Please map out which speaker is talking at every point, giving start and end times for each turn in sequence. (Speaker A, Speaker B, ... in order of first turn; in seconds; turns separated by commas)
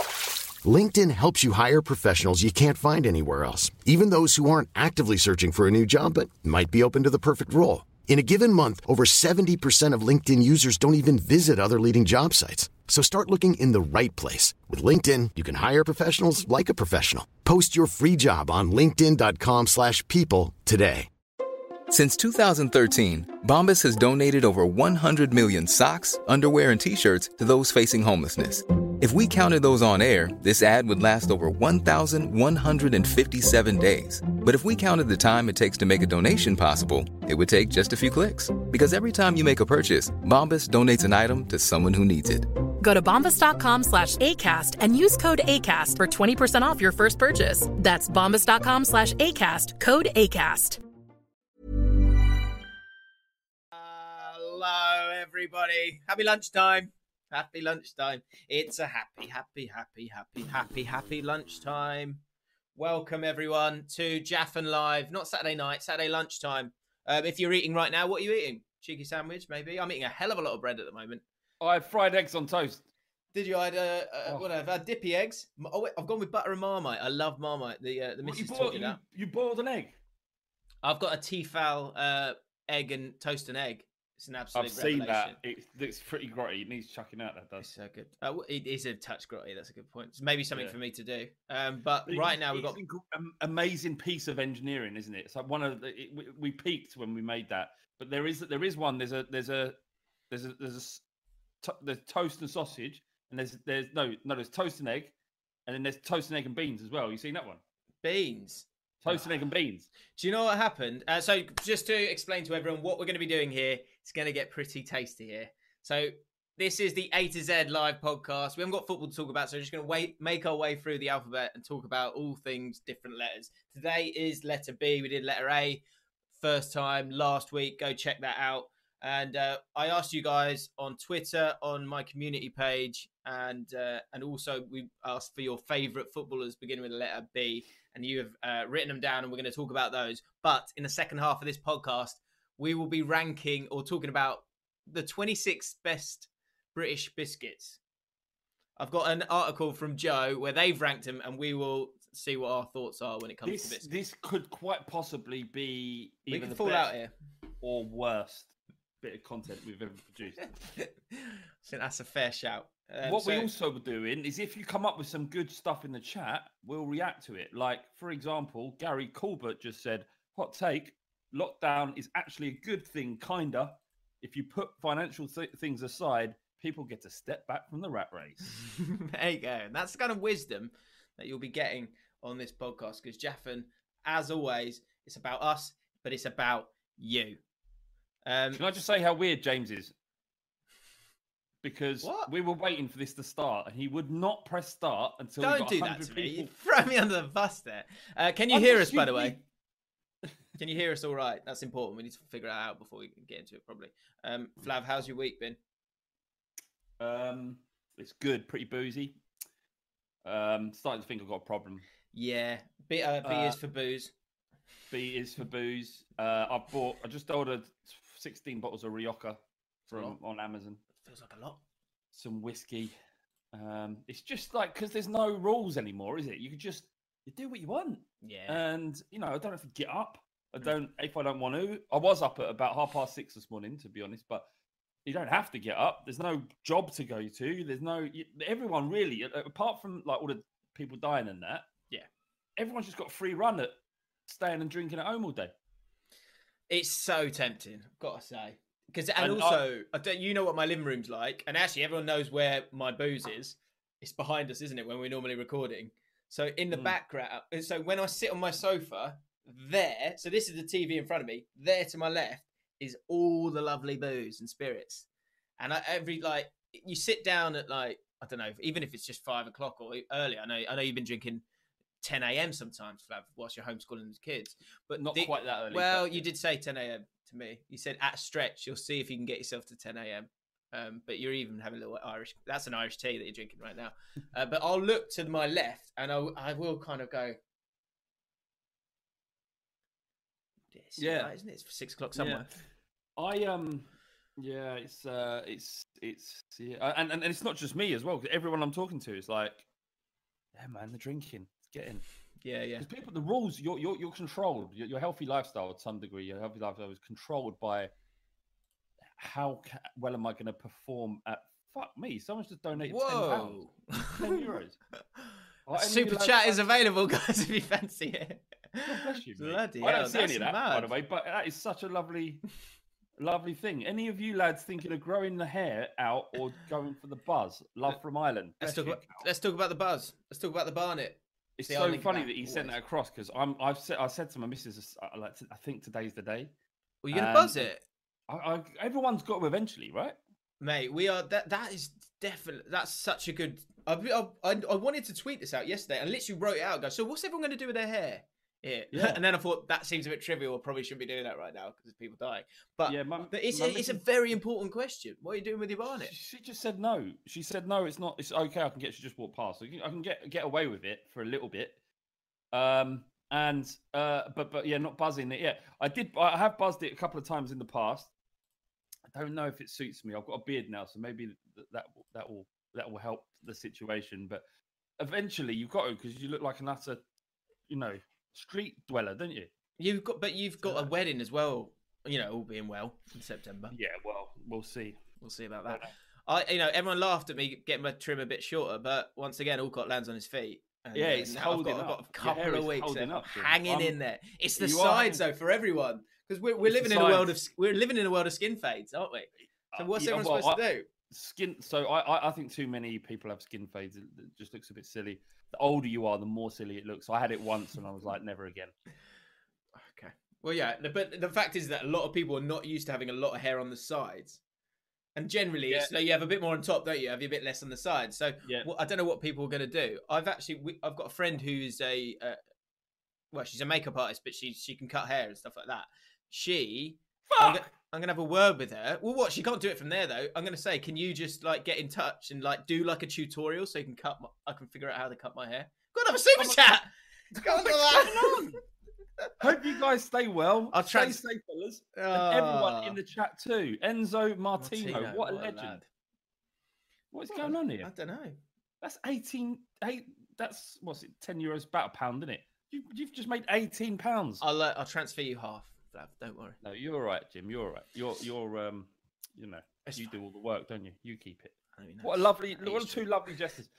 Speaker A: 0.6-21.1, Speaker B: 21.9-42.6, Speaker C: 42.8-50.8, Speaker D: 53.7-62.2, Speaker D: 62.8-71.2, Speaker E: 71.6-72.8, Speaker D: 73.3-79.0, Speaker E: 78.2-80.0, Speaker D: 80.8-85.4, Speaker E: 84.5-87.7, Speaker D: 87.6-92.8, Speaker E: 92.1-99.8, Speaker E: 100.3-101.0, Speaker E: 101.6-105.1, Speaker E: 105.7-107.6, Speaker D: 108.0-109.3, Speaker E: 109.0-109.9, Speaker D: 110.1-125.8, Speaker D: 126.4-147.8, Speaker D: 148.8-153.9, Speaker E: 153.4-156.9, Speaker D: 156.3-157.1, Speaker E: 157.6-160.7, Speaker D: 160.8-163.5, Speaker E: 163.0-178.5, Speaker D: 178.6-187.4, Speaker D: 188.3-188.6, Speaker E: 188.5-189.9, Speaker E: 191.6-196.5, Speaker D: 192.0-192.3, Speaker D: 195.4-199.4, Speaker E: 198.5-199.4, Speaker D: 200.6-205.6, Speaker E: 207.0-209.2, Speaker E: 210.2-211.9, Speaker D: 212.1-214.1, Speaker E: 213.2-213.6, Speaker E: 214.9-220.8, Speaker D: 219.9-220.2, Speaker D: 221.0-221.6, Speaker E: 222.1-222.9, Speaker E: 223.5-234.5, Speaker D: 228.2-228.6, Speaker E: 235.1-241.7, Speaker E: 242.6-243.8, Speaker E: 244.3-245.5, Speaker D: 246.7-265.1, Speaker E: 249.2-249.6, Speaker D: 265.6-271.4, Speaker D: 272.0-287.4, Speaker E: 274.9-276.3, Speaker D: 290.7-292.5, Speaker E: 291.0-291.3, Speaker E: 292.1-292.6, Speaker E: 293.2-299.6, Speaker E: 300.6-302.0, Speaker D: 302.4-302.9, Speaker E: 302.8-307.9, Speaker E: 309.2-313.6, Speaker D: 312.8-314.5, Speaker E: 314.1-314.8, Speaker E: 315.7-316.6, Speaker D: 315.8-320.9, Speaker E: 318.9-322.4, Speaker E: 323.2-329.3, Speaker D: 328.6-332.7, Speaker E: 331.6-336.5, Speaker D: 337.0-337.8, Speaker E: 337.1-337.7, Speaker E: 338.3-340.2, Speaker D: 340.6-356.1, Speaker E: 348.9-349.2, Speaker E: 352.9-354.0, Speaker E: 356.0-361.8, Speaker E: 362.5-368.1, Speaker E: 369.1-374.4, Speaker E: 375.0-377.0, Speaker E: 377.7-379.5, Speaker D: 379.8-383.8, Speaker E: 380.6-380.9, Speaker E: 383.7-385.0, Speaker D: 385.2-400.9, Speaker E: 390.9-394.0, Speaker E: 394.6-395.2, Speaker E: 396.6-397.3, Speaker E: 399.7-408.7, Speaker D: 409.8-414.4, Speaker D: 415.2-422.4, Speaker D: 423.3-438.6, Speaker E: 427.3-427.6, Speaker E: 436.4-436.8, Speaker E: 437.3-438.6, Speaker E: 439.4-445.8, Speaker D: 440.7-441.2, Speaker D: 441.9-443.0, Speaker D: 444.6-445.9, Speaker E: 447.1-447.9, Speaker D: 447.3-448.4, Speaker E: 448.8-454.4, Speaker D: 454.4-456.6, Speaker E: 456.6-463.7, Speaker D: 459.9-460.1, Speaker D: 461.8-463.1